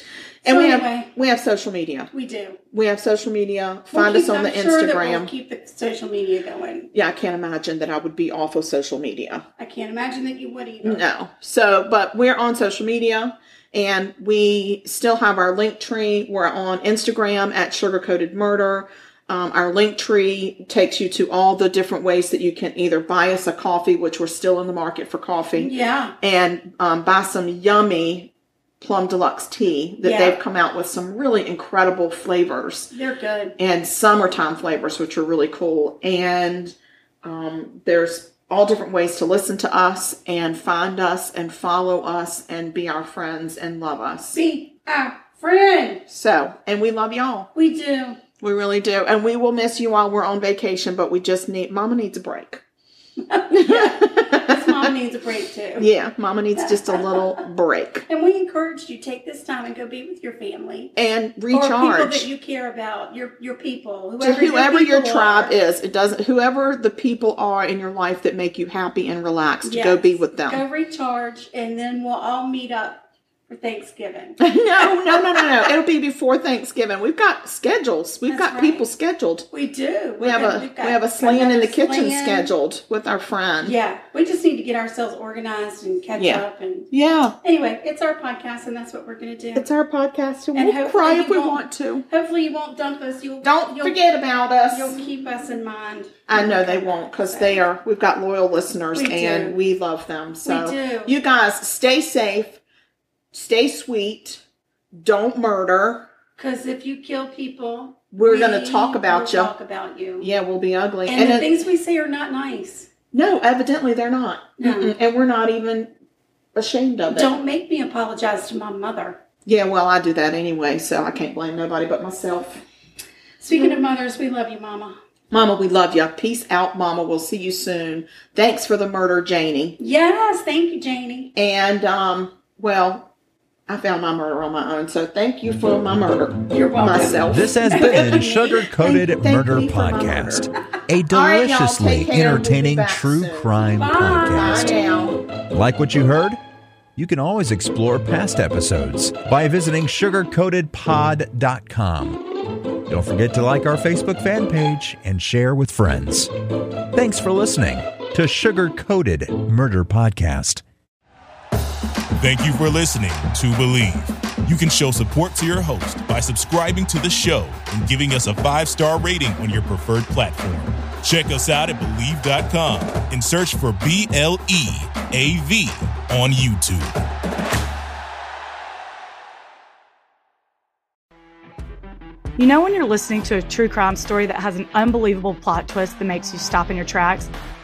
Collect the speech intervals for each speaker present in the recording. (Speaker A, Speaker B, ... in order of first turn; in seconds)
Speaker A: 0.4-2.1, 2.7-5.3, 6.9-9.4, 10.8-32.9, 33.6-44.4, 46.1-47.5, 48.4-52.6, 53.5-54.9, 55.8-58.0, 61.0-62.3, 64.2-70.6, 74.4-79.5, 80.2-83.8, 86.2-87.3, 89.5-92.0, 93.4-95.0, 96.3-102.6, 103.3-106.1, 108.1-109.5, 110.2-111.5, 113.1-115.9, 116.5-117.4, 119.5-122.6, 123.5-123.8, 125.3-129.8, 131.3-133.1, 133.7-140.5, 141.1-143.5, 144.3-145.2
Speaker B: 0.5-1.1, 2.1-2.6, 3.9-6.9, 9.6-11.0, 25.6-26.1, 30.0-30.4, 32.9-33.5, 44.3-46.0, 47.5-48.2, 53.3-55.9, 56.5-57.4, 58.1-60.9, 61.5-65.5, 69.6-75.6, 78.3-78.8, 79.5-82.5, 83.6-86.9, 87.4-89.7, 90.5-94.0, 94.7-97.6, 98.9-99.6, 100.4-101.1, 106.4-110.3, 111.1-112.9, 114.6-114.9, 117.1-119.2, 123.4-125.0, 129.8-131.3, 136.5-138.7, 143.7-144.8
Speaker C: 137.3-144.7, 145.5-146.4, 146.9-152.2, 152.9-156.3, 156.9-160.6
Speaker D: 162.2-177.0
Speaker E: 182.3-187.3